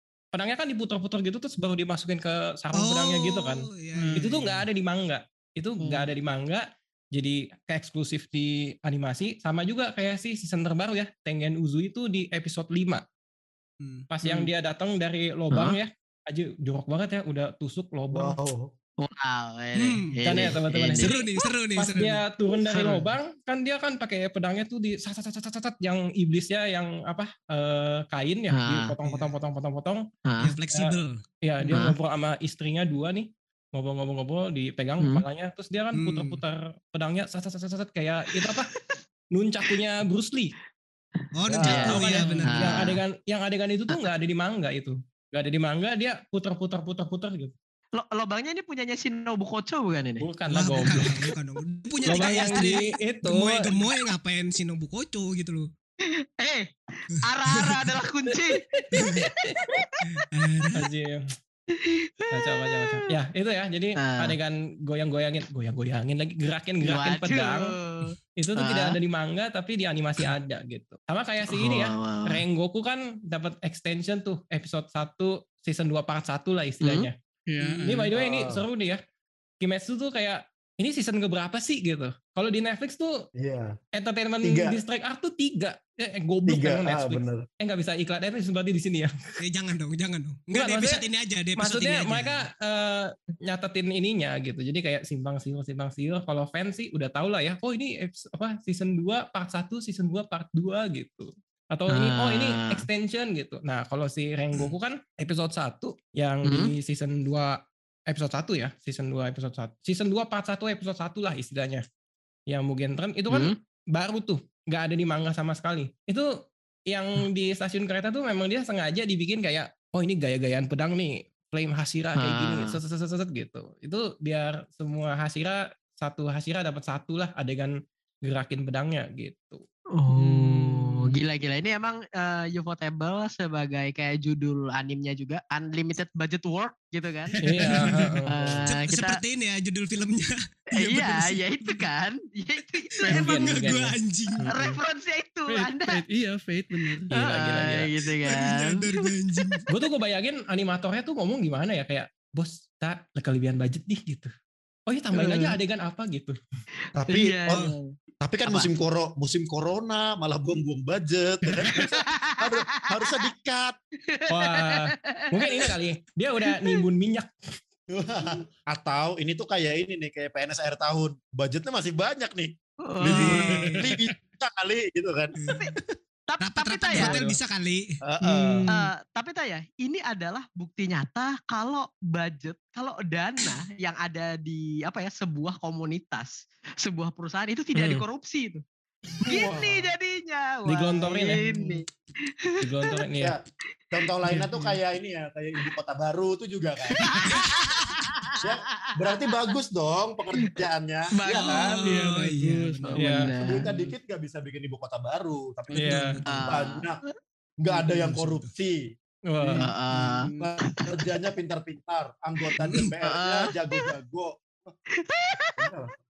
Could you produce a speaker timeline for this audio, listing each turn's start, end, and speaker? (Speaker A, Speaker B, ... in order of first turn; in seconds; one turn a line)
Speaker A: 0.3-13.0
Speaker B: 2.8-4.6
Speaker C: 3.9-4.3
Speaker C: 5.8-6.1
Speaker B: 13.8-14.1
Speaker A: 14.1-18.4
Speaker D: 15.5-15.8
Speaker E: 18.1-18.7
Speaker D: 19.0-21.2
Speaker B: 19.8-22.2
Speaker A: 20.2-21.1
Speaker A: 21.8-30.0
Speaker D: 22.6-23.0
Speaker D: 28.5-28.9
Speaker B: 29.0-29.3
Speaker D: 30.2-30.5
Speaker B: 30.4-31.2
Speaker A: 30.7-38.7
Speaker D: 31.7-31.9
Speaker B: 35.9-36.4
Speaker D: 38.4-39.0
Speaker A: 39.3-40.5
Speaker B: 41.3-42.9
Speaker E: 41.5-42.0
Speaker D: 41.6-43.0
Speaker A: 41.6-47.5
Speaker D: 48.0-50.2
Speaker A: 50.2-51.1
Speaker B: 50.5-55.7
Speaker D: 50.9-51.2
Speaker A: 52.0-53.7
Speaker D: 52.1-52.8
Speaker D: 56.1-60.0
Speaker A: 58.5-59.6
Speaker B: 58.9-59.2
Speaker B: 60.0-60.9
Speaker A: 60.7-61.2
Speaker D: 61.7-63.0
Speaker A: 62.3-67.7
Speaker D: 64.0-64.3
Speaker D: 66.8-69.0
Speaker A: 68.4-77.1
Speaker D: 71.5-72.4
Speaker D: 76.8-77.1
Speaker C: 77.5-78.1
Speaker A: 77.8-79.0
Speaker E: 78.1-78.6
Speaker A: 79.6-83.1
Speaker E: 83.4-83.8
Speaker A: 83.9-89.1
Speaker E: 84.4-84.8
Speaker E: 86.5-87.5
Speaker B: 89.4-92.4
Speaker A: 90.5-91.0
Speaker A: 91.6-107.6
Speaker D: 101.9-102.8
Speaker D: 106.4-106.7
Speaker A: 108.1-111.8
Speaker A: 112.5-116.3
Speaker A: 116.9-129.6
Speaker D: 122.2-122.8
Speaker D: 129.9-137.4
Speaker A: 137.4-138.3
Speaker C: 137.6-138.2
Speaker D: 138.3-139.2
Speaker E: 138.3-138.7
Speaker B: 138.7-141.9
Speaker D: 140.7-143.7
Speaker B: 143.0-144.5
Speaker A: 143.1-144.8
Speaker D: 144.5-146.0
Speaker C: 145.5-147.1
Speaker A: 147.1-147.9
Speaker D: 147.1-149.6
Speaker B: 148.0-149.7
Speaker A: 149.7-154.3
Speaker A: 154.9-156.3
Speaker D: 155.1-155.5
Speaker E: 156.9-157.7
Speaker D: 157.1-157.9
Speaker E: 158.2-163.8
Speaker D: 161.7-163.2
Speaker D: 164.1-165.7
Speaker A: 164.3-167.3
Speaker D: 166.5-166.8
Speaker E: 167.9-175.9
Speaker D: 172.8-173.6
Speaker B: 173.1-173.8
Speaker B: 175.4-175.8
Speaker D: 175.5-175.7
Speaker D: 176.3-177.2
Speaker B: 176.4-177.8
Speaker E: 178.1-178.7
Speaker C: 178.2-178.9
Speaker D: 178.7-188.6
Speaker A: 187.7-188.0
Speaker D: 189.2-193.0
Speaker E: 189.2-189.9
Speaker A: 190.7-191.5
Speaker A: 192.6-193.3
Speaker E: 193.9-197.4
Speaker D: 197.0-199.2
Speaker B: 197.2-197.9
Speaker E: 198.4-201.7
Speaker D: 201.1-201.7
Speaker B: 201.6-203.0
Speaker C: 201.8-203.9
Speaker D: 202.9-203.6
Speaker A: 203.0-203.3
Speaker E: 203.4-207.0
Speaker C: 205.7-206.2
Speaker A: 205.7-206.1
Speaker B: 206.0-206.5
Speaker D: 206.3-206.8
Speaker E: 207.6-208.9
Speaker B: 207.7-208.5
Speaker A: 209.3-209.7
Speaker D: 209.6-210.3
Speaker E: 210.3-214.7
Speaker D: 213.0-213.9
Speaker D: 214.9-215.7
Speaker E: 215.6-215.9